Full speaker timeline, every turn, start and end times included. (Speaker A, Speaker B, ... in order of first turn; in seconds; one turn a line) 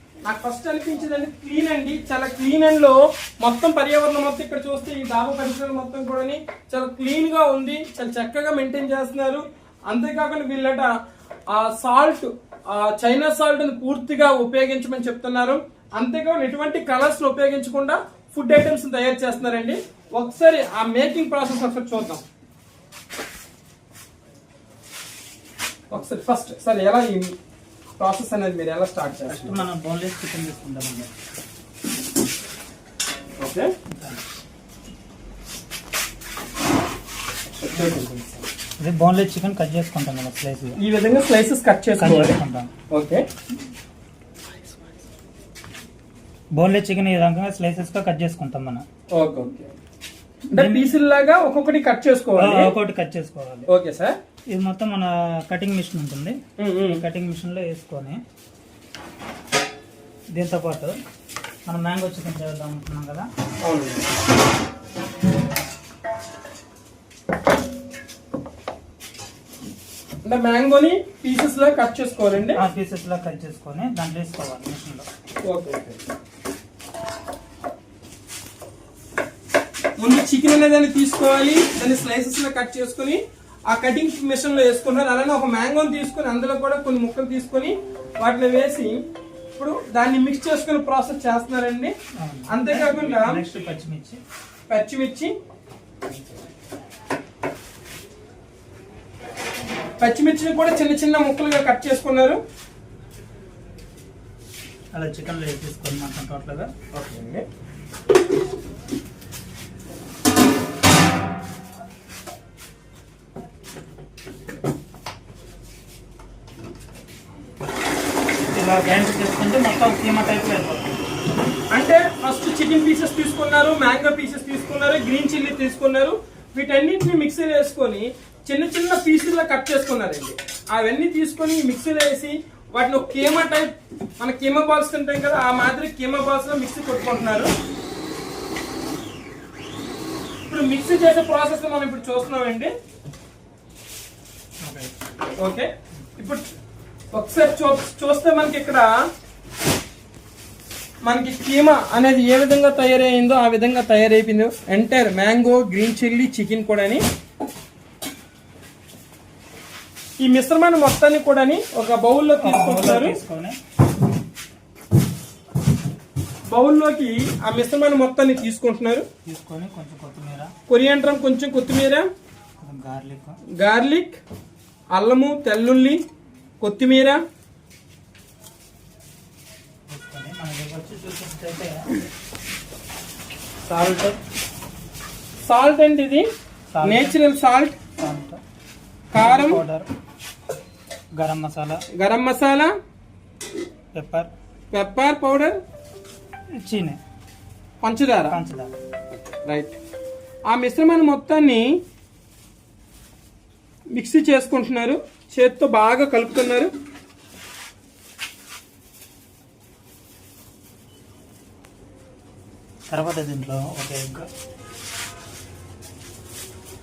Speaker A: 0.2-10.9
Speaker A: 11.5-22.2
Speaker A: 25.9-27.4
Speaker A: 28.0-29.6
Speaker B: 29.3-31.1
Speaker A: 33.4-33.7
Speaker B: 33.9-34.3
Speaker A: 37.6-38.5
Speaker B: 38.8-40.8
Speaker A: 40.8-42.4
Speaker B: 42.0-42.7
Speaker A: 42.9-43.3
Speaker B: 46.5-48.9
Speaker A: 49.1-49.7
Speaker A: 50.5-52.7
Speaker B: 50.5-51.0
Speaker B: 52.4-53.7
Speaker A: 53.7-54.1
Speaker B: 54.5-58.2
Speaker A: 56.6-57.0
Speaker B: 60.3-61.0
Speaker B: 61.7-63.3
Speaker A: 63.6-64.0
Speaker A: 70.2-72.6
Speaker B: 72.5-75.1
Speaker A: 75.4-76.0
Speaker A: 80.0-89.0
Speaker A: 89.6-91.9
Speaker B: 92.2-94.2
Speaker A: 92.5-93.4
Speaker A: 94.7-95.3
Speaker A: 100.0-102.4
Speaker B: 104.9-106.7
Speaker A: 106.9-107.5
Speaker B: 118.5-121.2
Speaker A: 121.7-137.5
Speaker A: 140.5-142.7
Speaker B: 144.6-144.9
Speaker A: 145.4-146.4
Speaker A: 147.1-148.9
Speaker A: 151.0-157.0
Speaker A: 160.2-163.2
Speaker B: 162.4-163.6
Speaker A: 166.5-169.1
Speaker B: 169.2-170.5
Speaker A: 170.7-172.1
Speaker B: 172.6-173.4
Speaker A: 173.6-174.2
Speaker A: 174.9-176.0
Speaker A: 176.6-177.2
Speaker B: 179.9-182.1
Speaker B: 183.7-184.2
Speaker A: 185.5-186.3
Speaker B: 186.7-187.2
Speaker A: 186.8-187.8
Speaker B: 187.9-188.4
Speaker A: 189.1-189.6
Speaker B: 189.1-189.9
Speaker B: 191.2-191.8
Speaker A: 192.0-192.7
Speaker B: 193.9-194.3
Speaker A: 194.7-195.6
Speaker B: 196.6-197.0
Speaker A: 197.8-198.4
Speaker B: 198.3-198.8
Speaker A: 199.4-199.8
Speaker A: 200.5-201.7
Speaker A: 203.9-206.7
Speaker B: 212.9-214.3